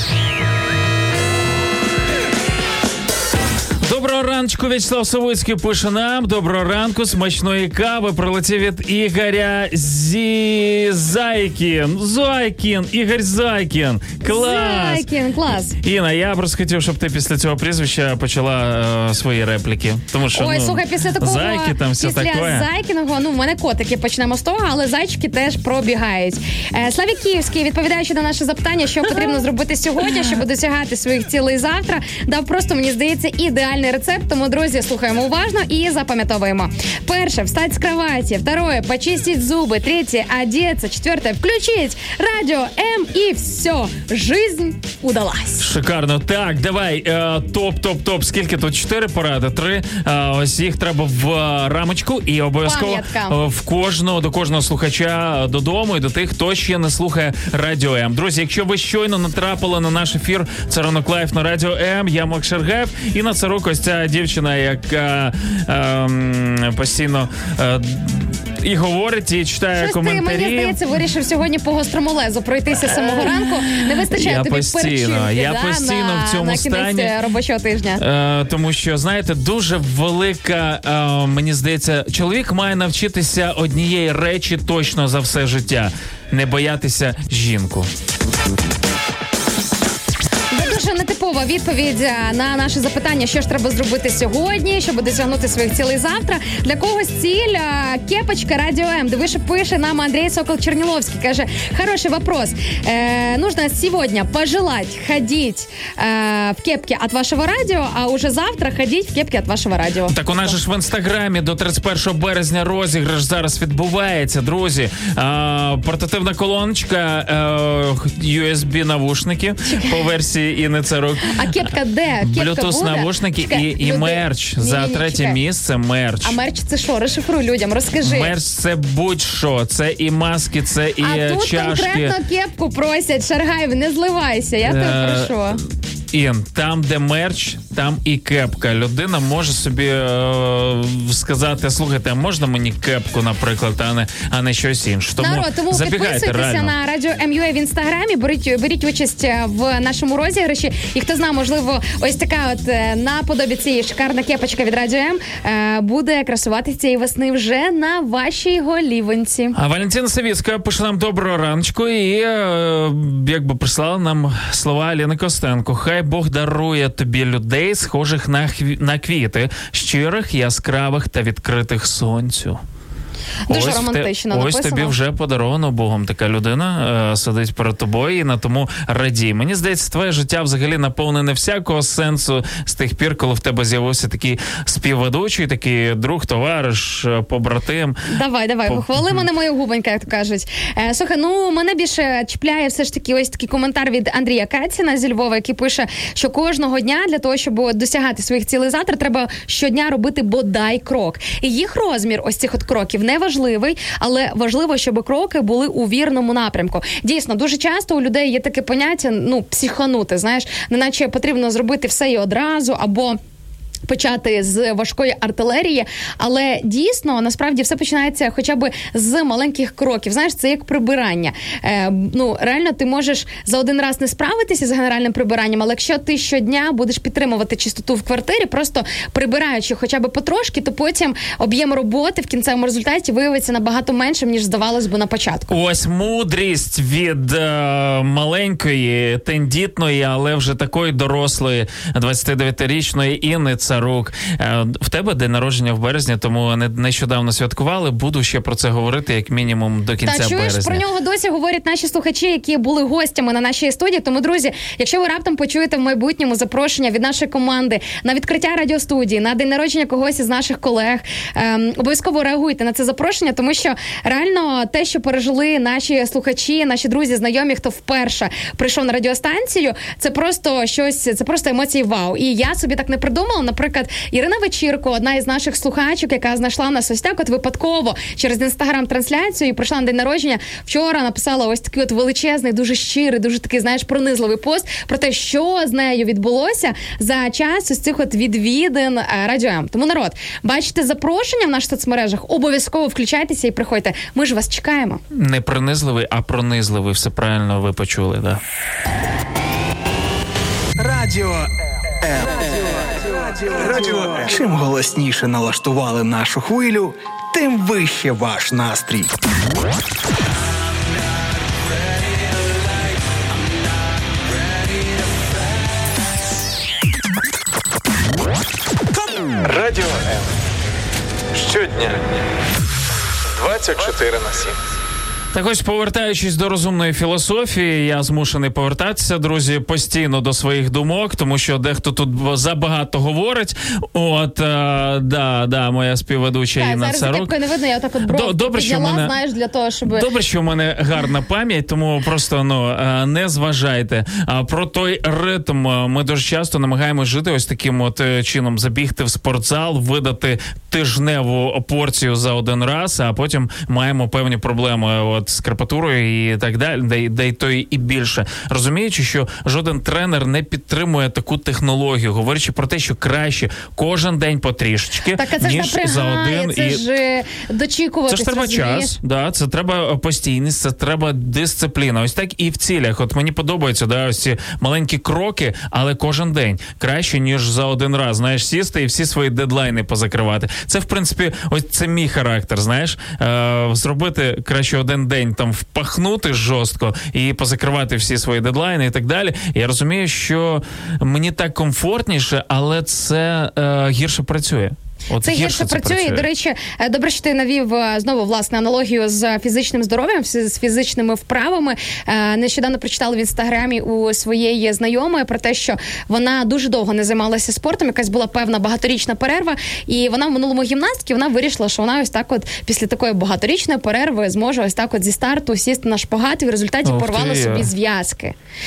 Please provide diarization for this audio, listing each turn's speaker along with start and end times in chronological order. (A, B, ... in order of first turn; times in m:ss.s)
0:03.8-0:15.1 A
0:14.2-0:15.8 B
0:15.8-0:22.7 A
0:20.3-0:45.6 B
0:29.1-0:29.4 A
0:45.6-1:10.8 A
0:52.6-0:53.4 B
1:09.8-1:18.0 B
1:12.9-1:17.1 A
1:18.0-1:27.9 A
1:30.5-1:50.5 B
1:50.1-2:01.5 A
1:59.6-2:00.0 B
2:01.3-2:05.4 B
2:02.2-2:06.4 A
2:06.2-2:08.3 B
2:08.0-2:12.1 A
2:11.0-2:15.6 B
2:14.6-2:15.5 A
2:16.1-2:26.7 A
2:25.2-2:39.5 B
2:39.5-2:52.6 A
2:53.5-2:54.9 B
2:53.5-3:08.0 A
3:08.1-3:33.2 B
3:08.6-3:09.2 A
3:33.8-3:55.5 B
3:55.5-4:10.8 A
4:10.0-4:55.0 B
4:55.1-4:58.4 A
5:00.8-5:01.5 C
5:03.4-5:09.1 C
5:19.4-5:20.3 D
5:21.3-5:22.0 D
5:23.3-5:24.6 D
5:25.3-5:37.3 A
5:36.6-5:40.0 B
5:38.1-5:39.1 A
5:39.8-6:06.8 A
6:05.2-6:09.0 B
6:08.1-6:36.2 A
6:35.2-6:58.3 B
6:56.8-6:57.7 A